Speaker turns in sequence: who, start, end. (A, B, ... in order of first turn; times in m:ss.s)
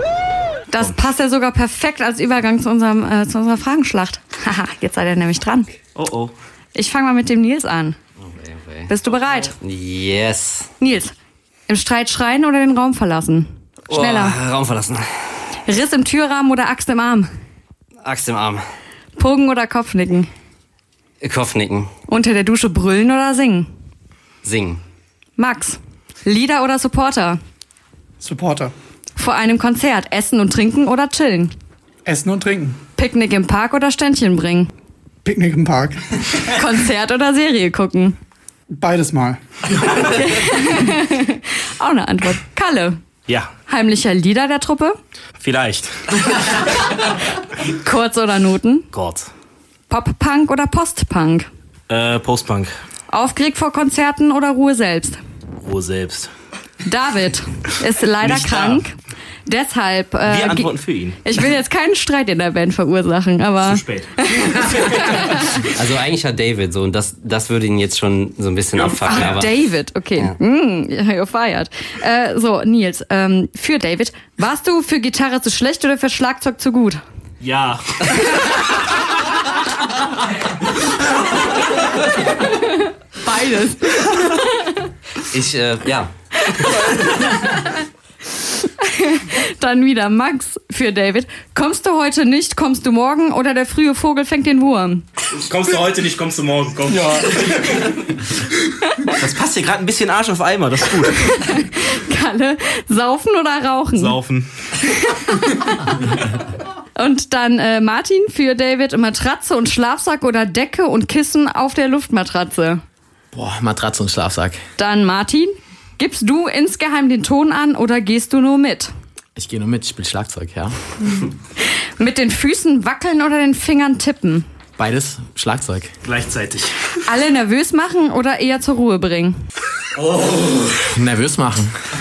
0:00.7-0:05.7 A
0:06.0-0:06.3 B
0:06.7-0:08.0 A
0:08.2-0:08.9 C
0:08.9-0:09.5 A
0:09.6-0:10.7 C
0:10.8-0:11.1 A
0:11.7-0:14.4 A
0:13.9-0:15.0 C
0:15.6-0:17.3 A
0:18.0-0:18.6 C
0:19.2-0:20.3 A
0:21.2-0:21.9 C
0:22.1-0:23.7 A
0:24.4-0:24.8 C
0:25.4-0:27.4 A
0:28.2-0:28.7 D
0:29.2-0:31.5 A
0:32.0-0:32.8 D
0:33.0-0:34.7 A
0:35.2-0:36.2 D
0:36.5-0:38.2 A
0:38.7-0:39.4 D
0:40.0-0:43.0 A
0:43.7-0:45.0 A
0:45.4-0:45.9 B
0:47.6-0:48.9 A
0:48.9-0:49.3 B
0:49.9-0:51.5 A
0:51.9-0:52.7 B
0:53.1-0:55.2 A
0:55.6-0:56.3 B
0:56.8-0:58.9 A
0:58.2-0:58.8 B
0:59.4-1:05.7 A
1:00.3-1:01.2 B
1:03.6-1:04.2 B
1:05.5-1:09.6 C
1:08.7-1:09.4 B
1:09.1-1:17.0 A
1:17.4-1:18.2 B
1:22.4-1:24.7 A
1:25.3-1:26.1 C
1:26.5-1:27.7 A
1:28.4-1:35.0 A
1:35.3-1:38.0 B
1:39.2-1:41.5 B
1:41.2-1:44.2 A
1:43.9-1:44.5 B
1:44.8-1:45.7 A
1:47.0-1:52.8 A
1:53.3-1:54.6 E
1:54.8-1:58.9 A
1:59.4-2:00.7 E
2:01.8-2:04.4 A
2:04.8-2:05.9 E
2:06.0-2:06.7 B
2:07.1-2:09.4 A
2:10.8-2:11.7 E